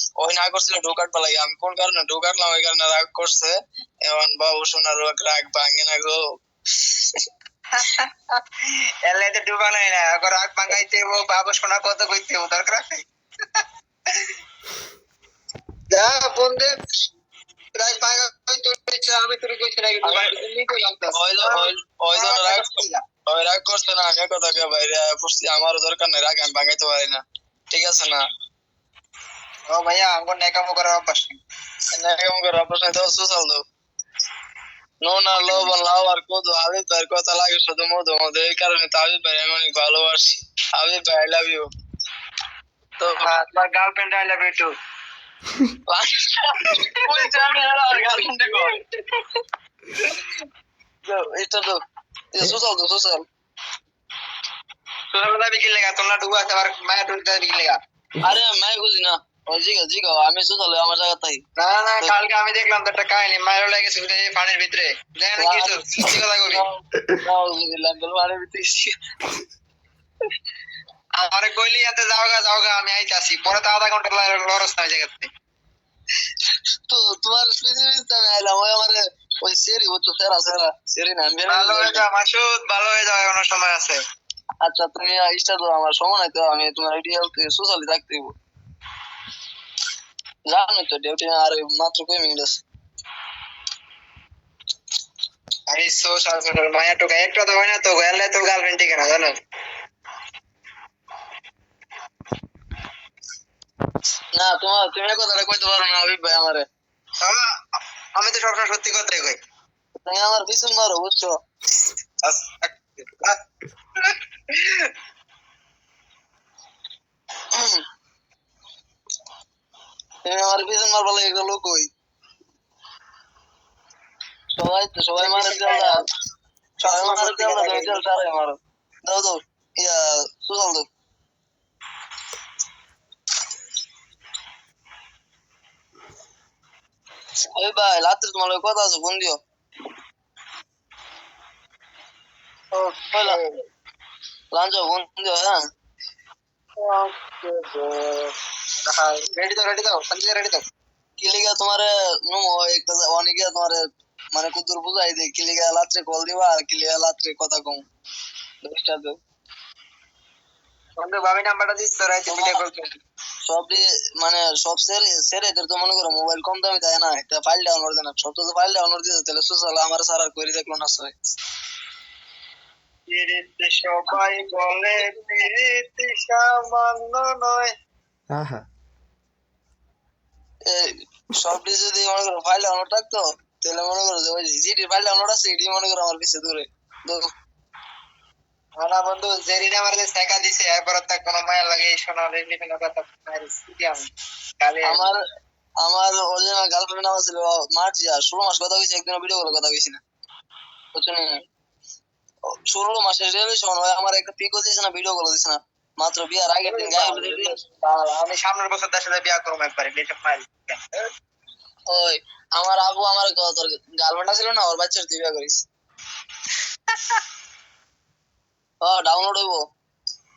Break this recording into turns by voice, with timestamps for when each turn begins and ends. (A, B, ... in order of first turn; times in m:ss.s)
0:00.2-0:06.2 A
0:07.8-0:14.3 B
0:15.9-0:16.7 B
0:17.7-0:23.0 B
0:21.1-0:27.2 A
0:27.7-0:28.2 A
0:29.7-0:31.4 B
0:31.9-0:33.6 A
0:35.0-0:41.7 A
0:35.4-0:35.7 B
0:43.2-0:44.7 B
0:45.9-0:48.7 A
0:46.7-0:47.0 B
0:48.0-0:49.3 B
0:51.1-0:51.8 A
0:52.3-0:53.2 A
0:55.1-0:57.8 B
0:58.2-1:01.4 A
1:01.6-1:06.6 B
1:05.4-1:05.7 A
1:06.4-1:08.9 A
1:11.2-1:15.3 B
1:16.9-1:22.0 A
1:21.5-1:24.0 B
1:24.6-1:28.3 A
1:30.5-1:32.6 A
1:35.7-1:39.3 B
1:44.4-1:46.7 A
1:48.2-1:49.4 B
1:50.0-1:51.4 A
1:52.2-1:53.4 B
1:54.0-1:54.9 B
1:57.5-1:57.8 A
2:00.2-2:01.9 A
2:04.6-2:06.0 A
2:05.2-2:06.0 B
2:06.8-2:08.0 B
2:06.9-2:10.9 A
2:17.6-2:19.4 A
2:22.7-2:23.4 A
2:23.2-2:23.6 B
2:24.5-2:25.5 A
2:26.8-2:28.3 B
2:28.8-2:30.6 B
2:31.2-2:33.8 A
2:34.3-2:37.8 A
2:38.6-2:39.2 A
2:41.0-2:42.9 B
2:42.3-2:42.6 A
2:43.5-2:51.1 A
2:53.1-2:57.7 B
3:00.7-3:07.2 A
3:08.8-3:14.1 B
3:14.6-3:15.1 B
3:14.8-3:15.2 A
3:15.8-3:20.0 A
3:20.9-3:21.4 A
3:22.7-3:27.6 A
3:26.6-3:31.0 B
3:31.9-3:35.6 A
3:38.8-3:39.6 A